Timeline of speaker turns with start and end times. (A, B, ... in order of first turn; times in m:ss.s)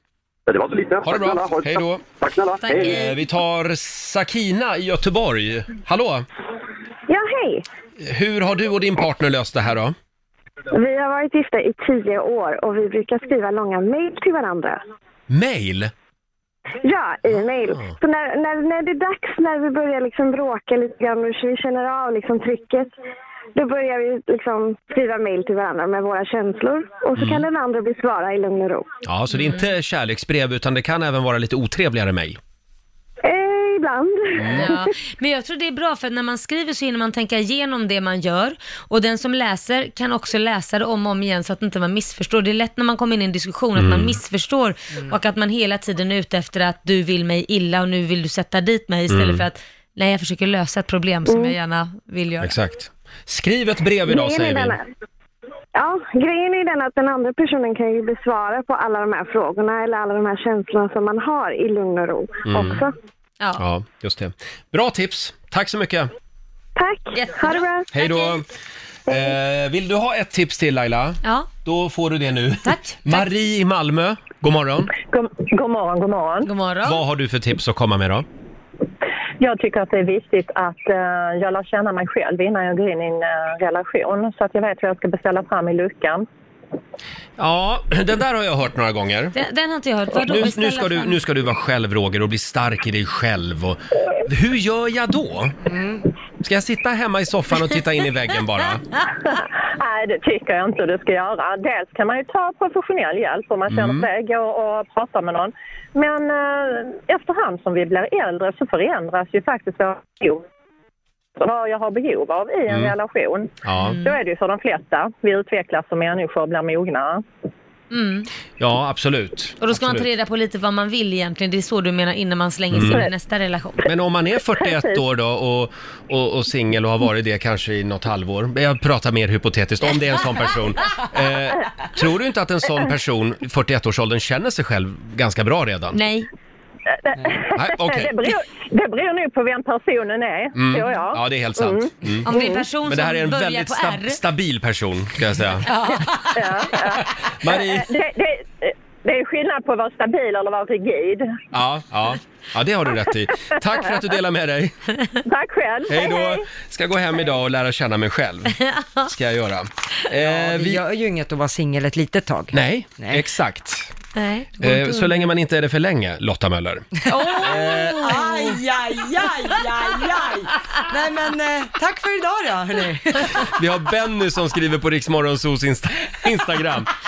0:00.5-0:03.1 A
0:01.0-0:02.0 B
0:02.6-0:03.2 C
0:02.8-0:06.3 B
0:07.1-0:07.6 D
0:08.0-0:10.0 B
0:10.7-0:14.8 D
0:15.3-0:15.9 B
0:16.8-0:22.9 D
0:23.6-0:28.9 D
0:27.2-0:27.5 B
0:29.0-0:32.4 B
0:29.4-0:29.6 C
0:33.2-0:34.9 D
0:34.4-0:34.7 B
0:34.6-0:52.5 C
0:43.8-0:44.2 B
0:49.1-0:49.5 B
0:51.3-0:51.6 D
0:52.4-0:54.8 B
0:54.1-0:54.8 D
0:55.8-1:02.9 D
1:02.5-1:02.8 B
1:03.6-1:06.1 B
1:06.8-1:07.9 D
1:07.2-1:08.4 C
1:07.9-1:08.4 B
1:09.1-1:14.9 B
1:11.2-1:11.5 C
1:12.6-1:13.2 C
1:15.0-1:16.5 E
1:16.4-1:17.0 C
1:16.8-1:18.3 B
1:19.4-1:26.3 E
1:27.4-1:29.4 B
1:29.3-1:31.2 C
1:30.2-1:35.6 B
1:35.7-1:36.0 F
1:36.4-1:38.8 B
1:39.3-1:50.4 E
1:43.7-1:44.1 B
1:51.4-1:57.2 E
1:53.6-1:54.0 B
1:53.8-1:54.2 C
1:57.9-1:58.3 C
1:58.6-2:00.1 B
1:59.6-2:03.8 C
2:02.7-2:03.1 B
2:03.8-2:16.0 B
2:04.6-2:05.0 E
2:15.9-2:16.3 C
2:17.0-2:21.9 E
2:17.6-2:18.3 B
2:20.6-2:25.7 B
2:22.3-2:24.2 C
2:25.7-2:26.3 C
2:26.4-2:31.4 E
2:27.4-2:27.9 B
2:31.5-2:34.8 B
2:35.3-2:36.4 E
2:35.9-2:40.8 B
2:40.2-2:43.2 F
2:42.5-2:43.9 B
2:44.2-2:45.3 C
2:44.6-2:48.3 B
2:47.1-2:53.4 F
2:47.1-2:48.2 C
2:53.5-2:56.9 B